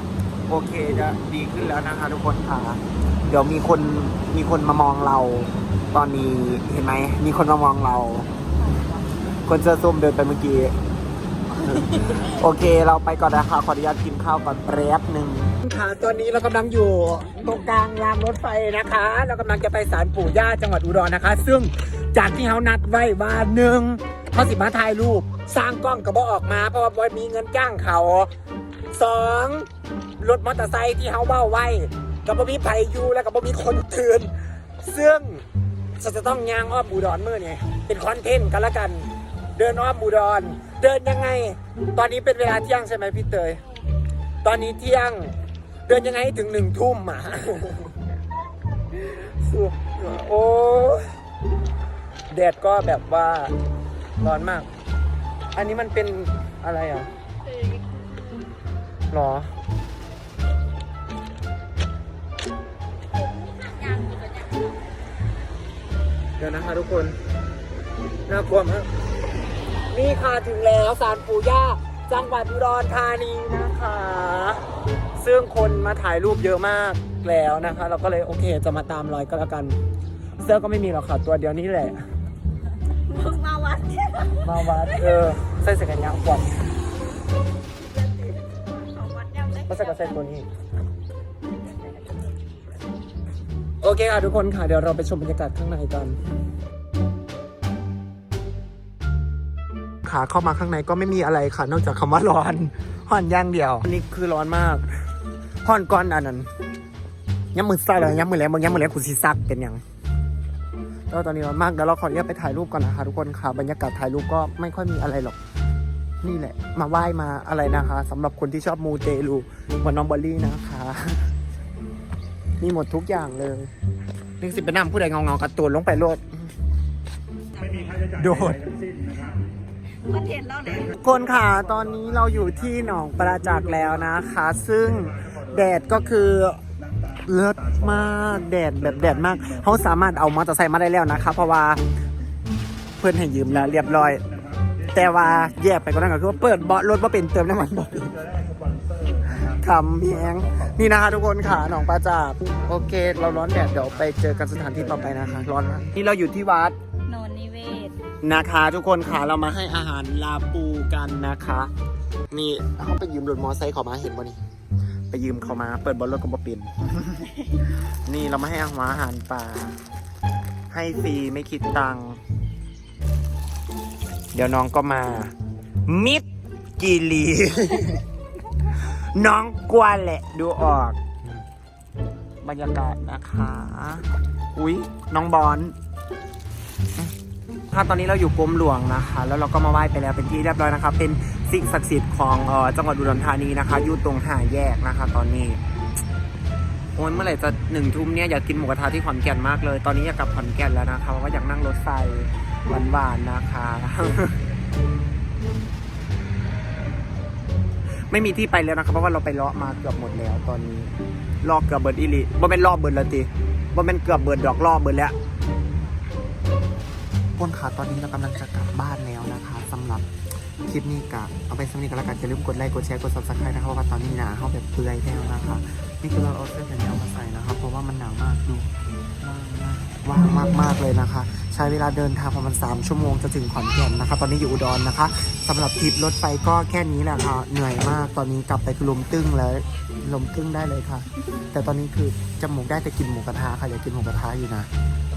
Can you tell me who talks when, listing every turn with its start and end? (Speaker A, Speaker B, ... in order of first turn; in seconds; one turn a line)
Speaker A: 0.5-8.3
Speaker A: 9.5-10.7
Speaker A: 11.5-28.3
Speaker B: 11.7-12.0
Speaker A: 28.9-29.7
Speaker A: 30.2-35.4
Speaker A: 36.0-43.6
Speaker A: 44.4-45.3
Speaker A: 45.9-48.0
Speaker A: 48.9-51.0
Speaker A: 52.3-53.5
Speaker A: 54.2-54.7
Speaker A: 55.5-57.1
Speaker B: 57.5-58.4
Speaker A: 59.1-59.5
Speaker B: 63.1-64.9
Speaker A: 66.4-67.2
Speaker A: 68.3-68.9
Speaker A: 69.9-74.6
Speaker A: 75.2-79.8
Speaker A: 80.4-82.0
Speaker B: 83.1-84.9
Speaker A: 84.4-86.6
Speaker B: 87.8-90.1
Speaker A: 89.7-90.5
Speaker A: 93.8-96.2
Speaker A: 100.0-104.9
Speaker A: 105.6-106.5
Speaker A: 107.5-109.8
Speaker A: 111.1-115.4
Speaker A: 116.2-121.3
Speaker A: 122.6-123.7
Speaker A: 124.4-126.2
Speaker B: 127.6-127.8
Speaker A: 127.9-128.7
Speaker B: 130.0-130.9
Speaker A: 130.9-136.6
Speaker A: 137.2-141.8
Speaker A: 143.0-144.2
Speaker A: 144.9-148.2
Speaker A: 149.2-156.8
Speaker B: 157.1-158.0
Speaker A: 158.2-161.7
Speaker A: 162.3-164.4
Speaker A: 165.1-169.8
Speaker A: 170.7-172.2
Speaker A: 174.3-175.3
Speaker A: 175.8-176.2
Speaker A: 176.8-178.0
Speaker A: 178.7-181.4
Speaker A: 182.4-185.7
Speaker A: 187.7-195.6
Speaker A: 196.9-204.4
Speaker A: 208.1-215.1
Speaker A: 217.4-220.1
Speaker A: 220.6-244.7